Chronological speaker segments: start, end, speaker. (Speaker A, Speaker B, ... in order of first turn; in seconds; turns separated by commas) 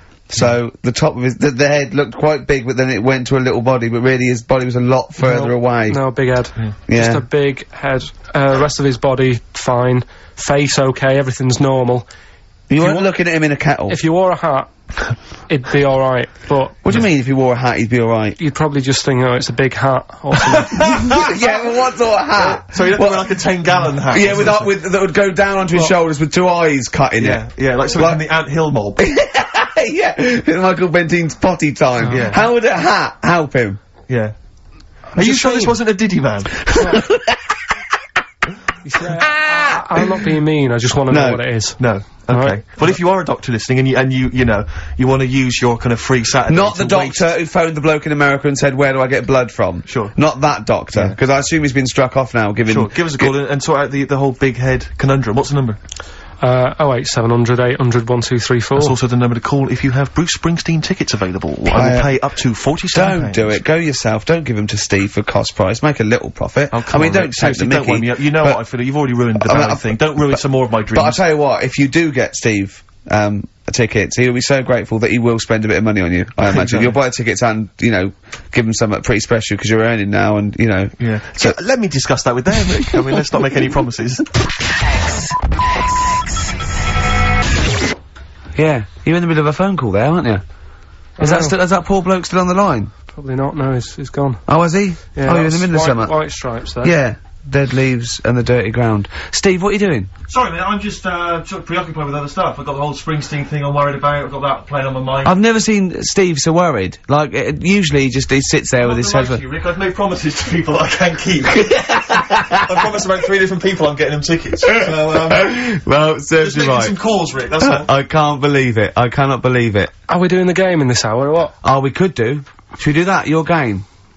Speaker A: 0.3-6.0, Speaker B: 5.2-12.1, Speaker A: 6.9-7.2, Speaker A: 12.7-14.0, Speaker B: 12.8-13.1, Speaker B: 13.9-14.7, Speaker B: 15.5-16.8, Speaker A: 16.8-18.4, Speaker B: 18.4-21.1, Speaker C: 20.6-21.2, Speaker A: 21.1-23.3, Speaker C: 22.4-24.7, Speaker A: 24.1-28.2, Speaker C: 27.2-29.0, Speaker A: 29.0-33.8, Speaker C: 32.0-32.4, Speaker B: 32.0-32.4, Speaker C: 34.1-34.3, Speaker B: 35.1-35.8, Speaker C: 35.1-36.8, Speaker B: 36.8-37.0, Speaker B: 38.8-42.6, Speaker A: 39.2-39.8, Speaker A: 41.1-41.4, Speaker C: 41.8-47.2, Speaker A: 46.5-53.3, Speaker C: 49.9-50.1, Speaker C: 50.9-51.2, Speaker C: 52.7-55.8, Speaker B: 56.4-59.0, Speaker C: 58.8-63.6, Speaker A: 61.7-62.1, Speaker A: 62.9-68.6, Speaker C: 66.7-71.2, Speaker A: 69.4-70.4, Speaker A: 70.9-81.6, Speaker C: 76.4-77.0, Speaker C: 81.0-84.3, Speaker A: 88.5-90.4, Speaker B: 91.2-91.5, Speaker A: 91.2-92.9, Speaker B: 93.1-94.4, Speaker A: 94.5-96.1, Speaker B: 95.1-96.9, Speaker A: 96.8-100.1, Speaker C: 100.3-105.4, Speaker A: 105.2-109.4, Speaker C: 108.8-115.6, Speaker A: 111.8-112.6, Speaker A: 114.7-117.0, Speaker C: 116.4-117.9, Speaker A: 117.6-119.9, Speaker B: 120.1-121.5, Speaker A: 121.6-123.8